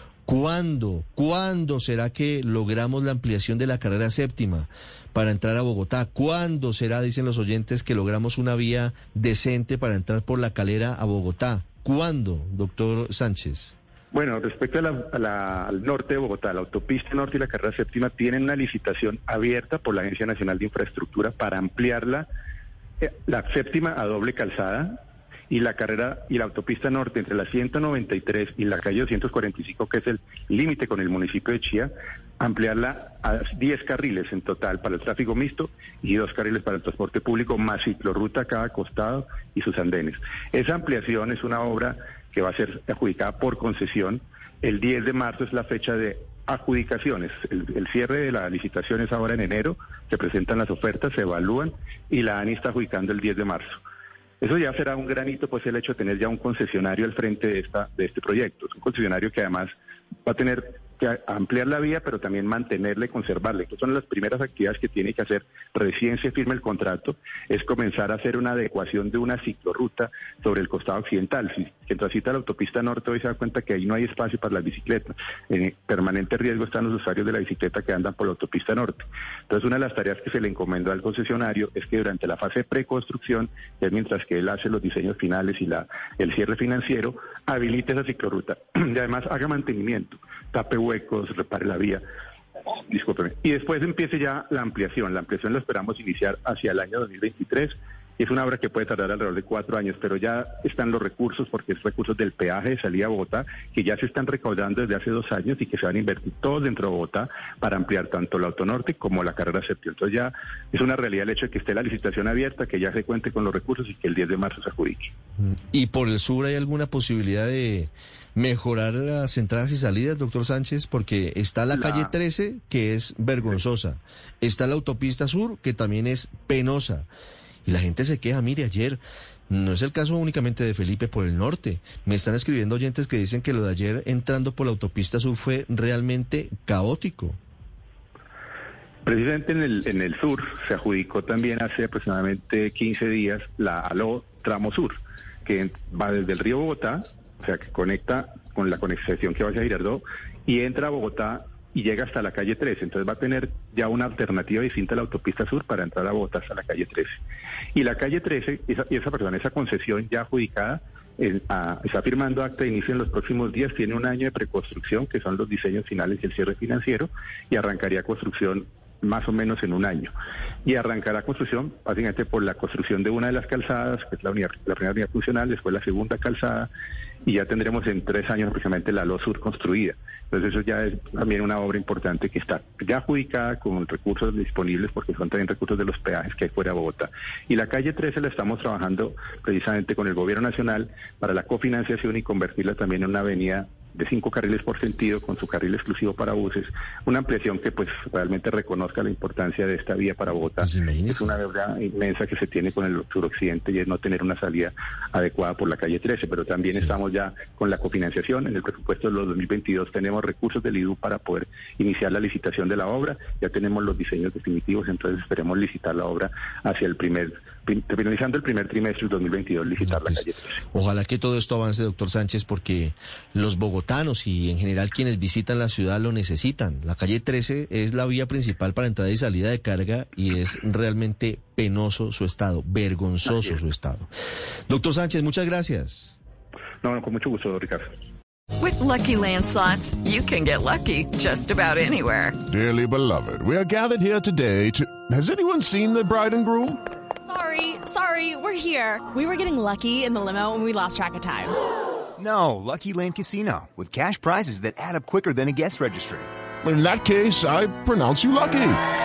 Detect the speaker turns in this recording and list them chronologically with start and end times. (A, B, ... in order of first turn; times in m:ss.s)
0:00.2-0:13.7 A
0:14.1-0:22.2 B
0:23.0-0:24.9 B
0:25.5-0:53.8 B
0:54.4-0:59.7 B
1:00.2-1:32.0 B
1:32.7-1:55.1 B
1:55.4-2:07.1 A
2:01.7-2:02.1 B
2:07.6-2:17.4 A
2:19.0-2:37.2 B
2:37.7-2:50.1 B
2:50.6-2:56.7 B
2:57.2-3:40.6 B
3:20.5-3:21.3 A
3:39.9-3:40.2 A
3:40.7-3:54.1 A
3:53.2-3:53.5 B
3:54.7-3:56.1 A
3:56.8-3:57.9 B
3:58.6-4:02.3 C
4:02.5-4:06.8 D
4:07.2-4:11.6 E
4:12.2-4:16.3 F
4:16.6-4:18.8 D